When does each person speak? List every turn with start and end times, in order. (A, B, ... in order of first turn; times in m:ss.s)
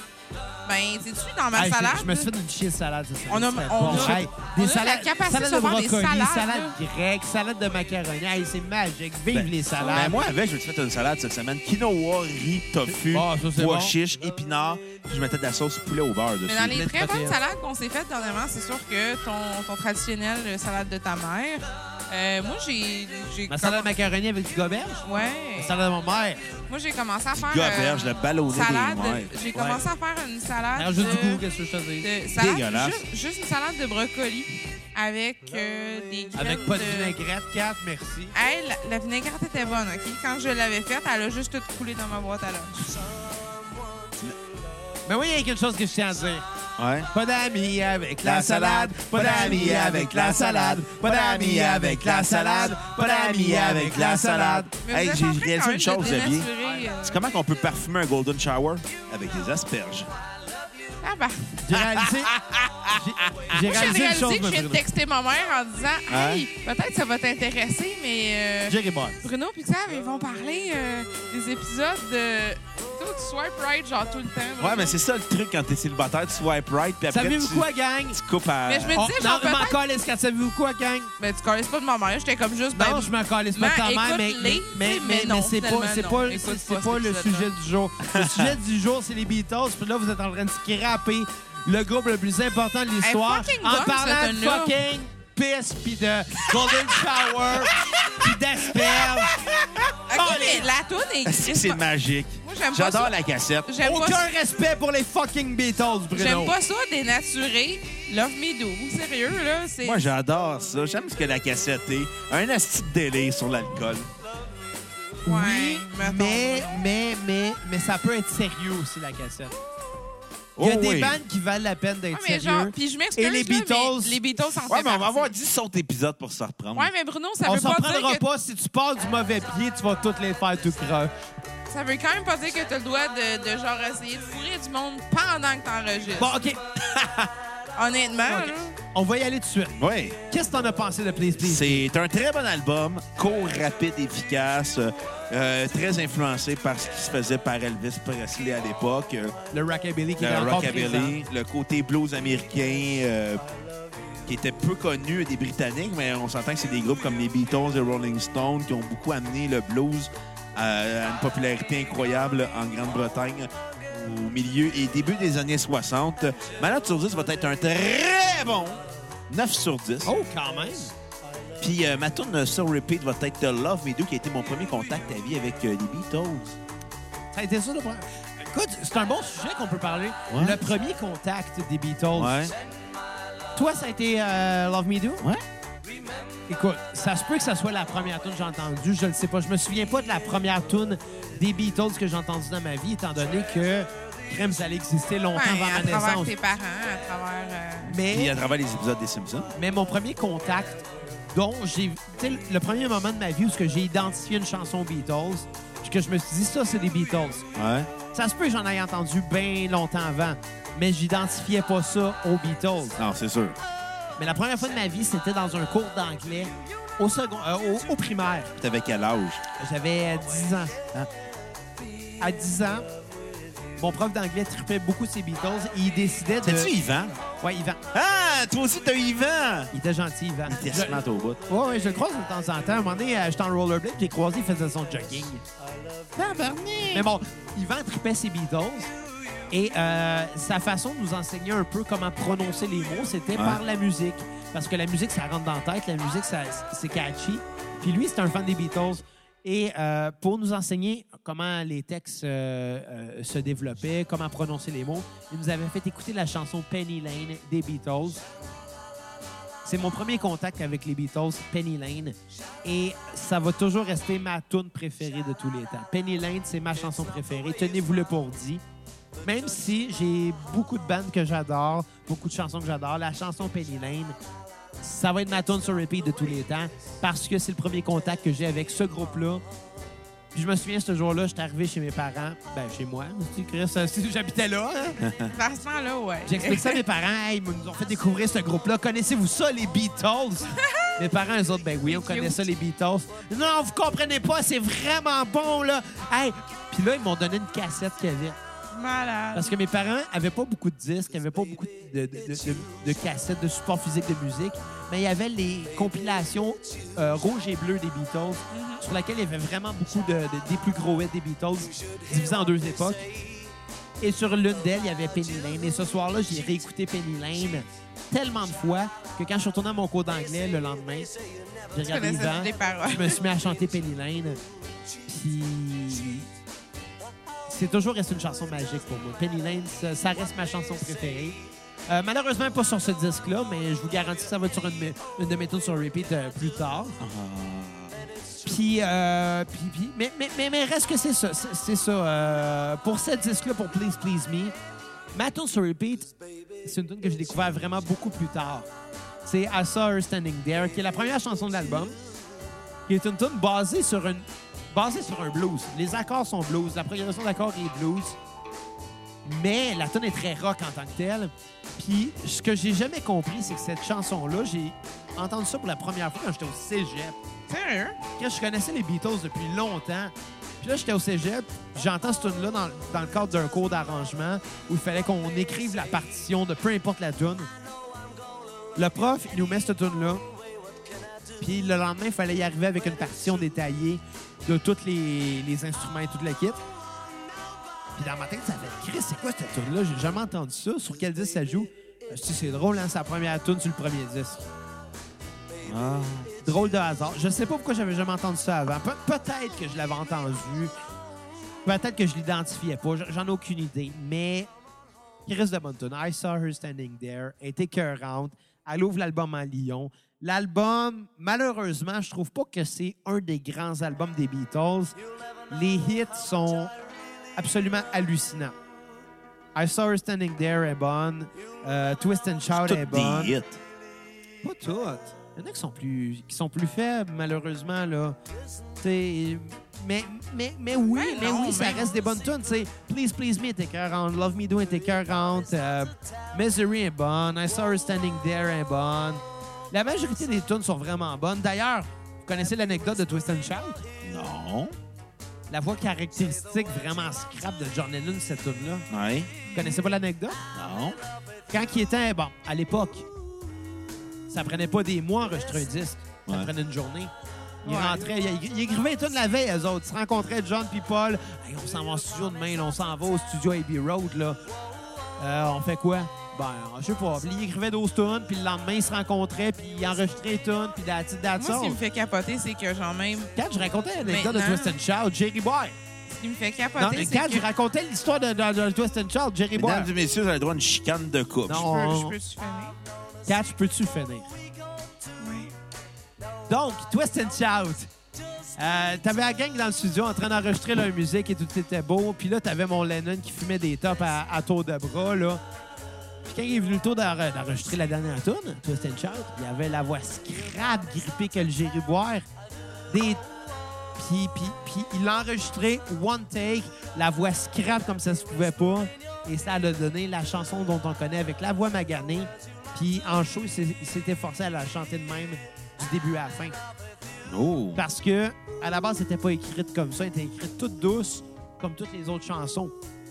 0:00.6-0:02.3 A
0:01.5-0:10.2 B
0:03.3-0:06.8 A
0:03.8-0:04.2 C
0:09.3-0:16.9 C
0:09.8-0:10.3 A
0:12.9-0:13.9 B
0:16.5-0:23.9 A
0:16.7-0:17.4 B
0:23.5-0:26.4 B
0:25.0-0:25.8 A
0:26.7-0:31.4 A
0:27.3-0:29.3 C
0:30.8-0:32.1 B
0:32.0-0:37.2 A
0:32.3-0:33.0 C
0:36.3-0:38.3 B
0:38.3-0:42.8 A
0:45.0-0:46.4 B
0:46.8-0:47.1 C
0:47.1-0:54.7 B
0:48.2-1:00.1 C
0:54.8-0:57.2 A
1:01.0-1:01.6 A
1:01.6-1:02.3 B
1:01.7-1:03.5 C
1:02.8-1:04.8 B
1:03.6-1:15.0 A
1:06.1-1:06.4 C
1:08.7-1:09.2 B
1:14.6-1:19.0 C
1:17.1-1:18.2 B
1:18.7-1:19.8 A
1:18.9-1:21.1 B
1:21.2-1:27.5 A
1:22.7-1:39.4 B
1:28.0-1:28.6 C
1:33.0-1:34.8 A
1:37.4-1:40.3 C
1:40.1-1:41.8 A
1:40.1-1:40.6 B
1:41.2-1:43.7 C
1:42.4-1:44.3 A
1:43.8-1:46.5 B
1:46.1-1:50.0 A
1:49.8-1:54.1 C
1:55.2-1:56.8 A
1:55.2-1:59.6 B
2:00.6-2:01.2 C
2:00.6-2:04.2 B
2:02.1-2:05.3 A
2:04.6-2:06.9 C
2:06.7-2:08.2 A
2:07.4-2:11.1 B
2:11.7-2:16.4 A
2:16.2-2:17.3 B
2:17.7-2:18.7 A
2:18.3-2:21.8 B
2:19.8-2:20.2 C
2:21.4-2:29.4 C
2:29.5-2:31.2 B
2:30.2-2:33.4 C
2:34.2-2:50.1 C
2:50.0-2:50.9 B
2:51.6-2:56.6 C
2:57.3-3:02.3 B
3:00.3-3:00.6 C
3:02.1-3:02.5 C
3:03.5-3:05.2 B
3:06.5-3:16.3 B
3:15.3-3:18.0 A
3:17.8-3:18.3 B
3:18.0-3:19.5 C
3:19.5-3:27.5 B
3:27.5-3:27.9 C
3:28.1-3:33.0 B
3:33.0-3:33.6 C
3:34.2-3:38.5 B
3:38.6-3:39.4 C
3:39.6-3:40.8 B
3:42.2-3:42.9 B
3:43.8-3:46.7 B
3:46.4-3:47.2 C
3:47.4-3:47.8 B
3:47.9-3:49.7 C
3:49.7-3:55.4 B
3:50.5-3:51.4 C
3:56.2-3:57.1 C
3:56.9-3:58.9 B
3:59.5-4:18.2 B
4:03.3-4:03.6 C
4:19.6-4:28.6 B
4:29.2-4:34.2 B
4:34.8-4:39.4 B
4:40.3-4:45.0 B
4:45.0-4:45.3 C
4:45.3-4:46.8 A
4:46.2-4:58.4 B
4:50.5-4:50.9 A
4:51.8-4:52.4 A
4:58.7-4:59.5 A
4:59.3-5:13.0 B
5:08.5-5:08.8 A
5:14.0-5:21.1 B
5:21.7-5:24.4 B
5:21.8-5:23.2 A
5:25.1-5:26.3 B
5:27.5-5:37.0 B
5:37.0-5:38.0 C
5:38.4-5:44.5 B
5:45.1-5:46.1 B
5:46.6-5:48.7 B
5:49.2-5:52.0 B
5:52.9-5:58.2 B
5:59.2-6:07.2 B
6:07.5-6:08.0 A
6:08.2-6:17.5 B
6:18.8-6:20.2 B
6:21.4-6:26.6 B
6:27.9-6:34.5 B
6:35.6-6:36.3 C
6:36.4-6:40.7 B
6:41.6-6:44.5 B
6:45.2-6:55.0 B
6:55.5-6:56.7 B
6:57.4-6:58.6 B
6:59.5-7:03.3 B
7:02.5-7:03.6 C
7:04.4-7:08.2 B
7:08.8-7:23.8 B
7:10.9-7:11.9 A
7:24.0-7:24.7 C
7:25.5-7:28.9 B
7:28.9-7:29.3 C
7:29.5-7:29.8 A
7:29.5-7:30.4 B
7:30.5-7:31.0 C
7:31.5-7:33.0 B
7:34.3-7:37.1 B
7:37.6-7:44.4 B
7:37.6-7:38.1 A
7:45.2-7:51.8 B
7:51.4-7:53.3 A
7:53.4-7:55.8 B
7:54.0-7:54.8 A
7:56.1-7:57.4 A
7:56.8-7:59.9 B
7:59.6-8:01.7 C
8:01.5-8:02.2 B
8:01.5-8:02.8 A
8:03.2-8:04.3 B
8:05.2-8:05.5 A
8:06.5-8:07.9 B
8:08.6-8:15.4 B
8:16.2-8:22.2 B
8:22.9-8:23.2 B
8:24.0-8:36.6 B
8:37.2-8:37.8 C
8:37.8-8:42.7 B